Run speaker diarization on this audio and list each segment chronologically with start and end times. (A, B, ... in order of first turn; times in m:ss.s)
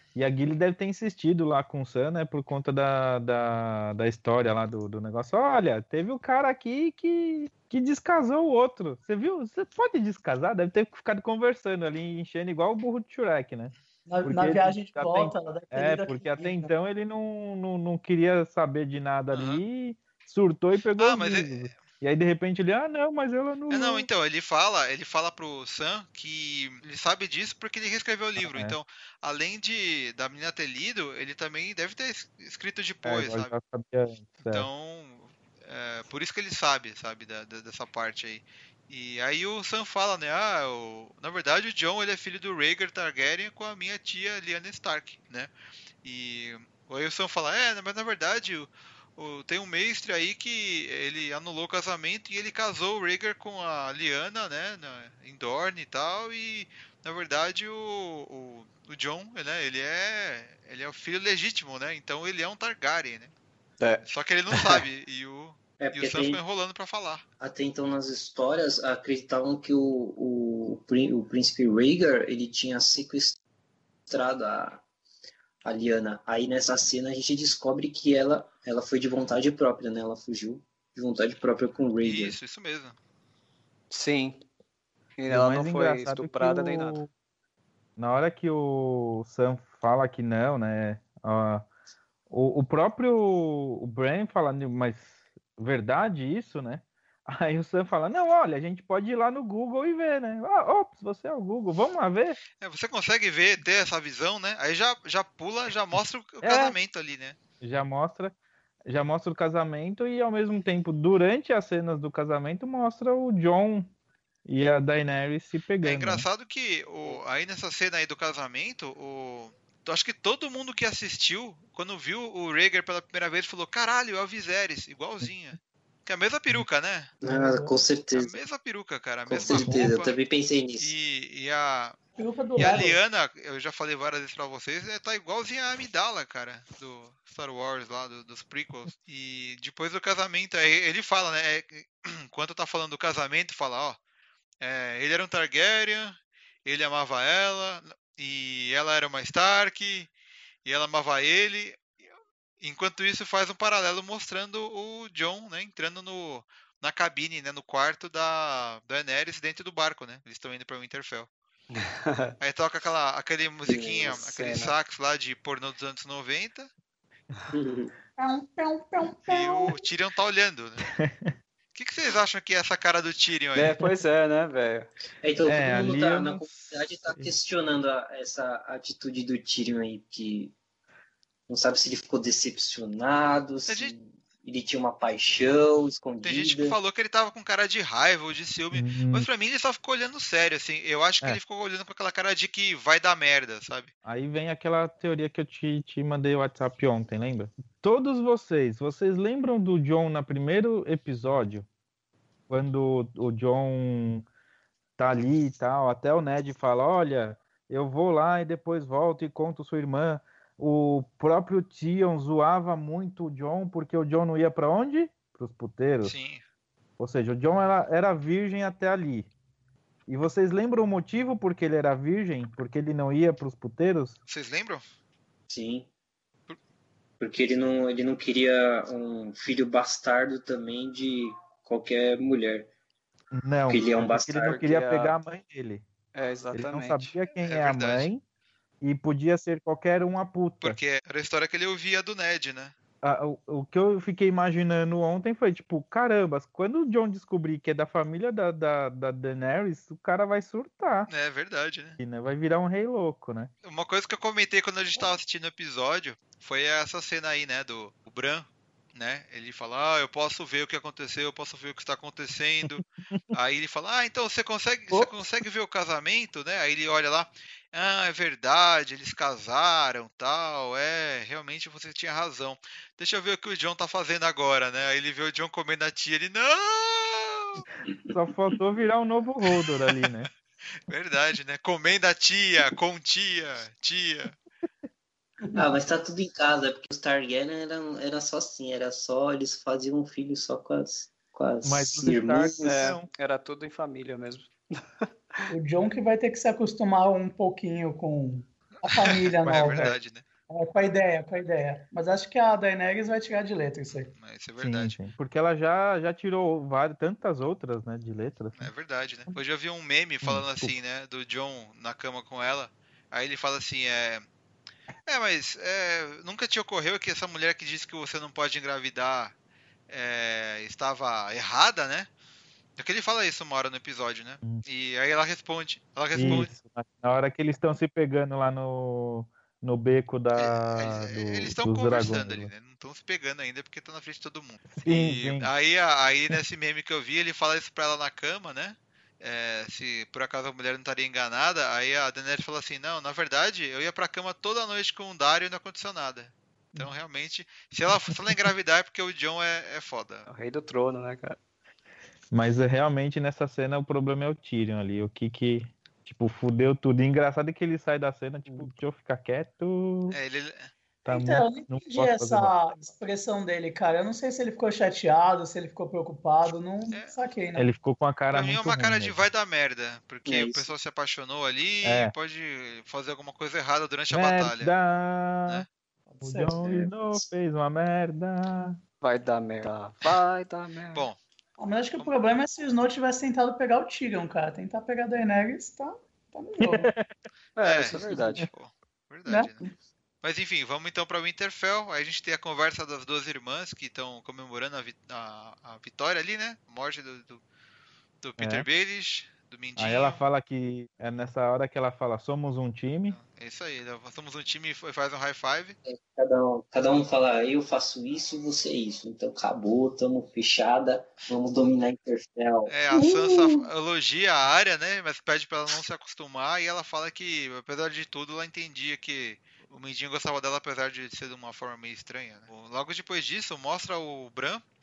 0:00.1-0:24.1 A
0:14.1-0:16.7 B
0:19.3-0:19.6 C
0:21.0-0:21.8 C
0:23.7-0:33.5 C
0:28.4-0:28.8 A
0:33.0-0:34.7 A
0:34.5-0:45.5 C
0:46.0-1:03.3 C
1:03.8-1:04.8 D
1:04.1-1:07.2 C
1:05.8-1:06.4 E
1:07.4-1:13.4 E
1:14.1-1:14.8 E
1:15.6-1:22.4 E
1:22.0-1:23.0 C
1:23.9-1:24.4 D
1:25.2-1:27.0 D
1:25.3-1:27.1 A
1:28.0-1:31.6 A
1:32.3-1:42.4 A
1:42.6-1:47.4 C
1:46.4-1:46.8 A
1:47.6-1:48.3 A
1:48.9-1:53.9 A
1:54.4-1:56.2 A
1:55.8-2:07.1 C
2:07.2-2:08.3 E
2:07.2-2:07.7 B
2:08.1-2:10.1 C
2:09.3-2:10.9 E
2:09.4-2:09.9 B
2:10.8-2:12.0 C
2:12.2-2:13.0 B
2:12.6-2:24.0 C
2:24.6-2:30.1 C
2:30.6-2:31.8 C
2:32.6-2:41.3 C
2:41.7-2:42.3 D
2:42.4-2:46.7 C
2:43.6-2:44.2 E
2:44.1-2:44.7 D
2:47.5-2:47.9 E
2:48.2-2:49.8 B
2:49.2-2:50.8 C
2:51.0-2:51.3 A
2:51.7-2:53.7 C
2:53.5-2:54.9 D
2:55.2-3:00.5 E
2:55.4-2:57.3 A
3:01.5-3:06.8 E
3:03.7-3:03.9 C
3:06.2-3:13.9 C
3:08.7-3:09.3 A
3:14.0-3:21.7 A
3:22.5-3:24.2 A
3:25.0-3:36.1 A
3:36.0-3:36.4 C
3:37.0-3:39.3 A
3:40.1-3:44.2 A
3:44.3-3:44.8 C
3:45.5-3:45.9 E
3:47.2-3:52.7 E
3:53.3-3:55.8 A
3:53.7-3:54.6 E
3:54.5-3:55.2 D
3:56.1-3:57.1 D
3:56.5-3:58.2 A
3:57.4-3:58.1 C
3:58.8-4:00.8 A
4:00.6-4:02.7 C
4:03.0-4:11.1 A
4:11.1-4:12.0 C
4:12.0-4:13.5 A
4:13.6-4:37.6 C
4:22.7-4:23.2 A
4:37.8-4:38.1 E
4:38.1-4:40.3 A
4:40.0-4:40.2 C
4:40.9-4:44.4 C
4:45.5-4:53.0 E
4:51.6-4:53.1 A
4:52.6-4:54.5 D
4:55.5-4:59.9 B
4:58.9-5:00.2 C
5:00.5-5:04.1 B
5:04.1-5:05.0 C
5:04.6-5:08.7 A
5:08.6-5:14.2 C
5:10.2-5:10.7 A
5:15.1-5:19.3 C
5:19.9-5:22.1 C
5:22.8-5:26.5 C
5:26.1-5:32.5 A
5:30.4-5:50.3 C
5:34.7-5:35.5 A
5:50.3-5:51.4 D
5:52.3-6:00.2 A
6:00.1-6:00.7 C
6:01.0-6:02.5 A
6:01.1-6:07.7 B
6:06.9-6:07.2 C
6:07.6-6:09.2 A
6:08.3-6:14.7 C
6:10.2-6:10.7 E
6:11.8-6:12.1 A
6:14.1-6:15.6 A
6:16.1-6:16.6 B
6:16.2-6:18.8 A
6:16.6-6:17.2 E
6:19.0-6:21.1 D
6:21.6-6:26.9 B
6:26.6-6:27.1 A
6:27.6-6:28.5 D
6:27.6-6:29.6 C
6:29.3-6:29.6 B
6:30.2-6:37.4 C
6:38.2-6:40.2 C
6:38.4-6:38.6 A
6:39.8-6:43.2 A
6:43.1-6:45.8 C
6:45.8-6:52.7 E
6:52.7-7:04.6 C
6:52.9-6:53.7 B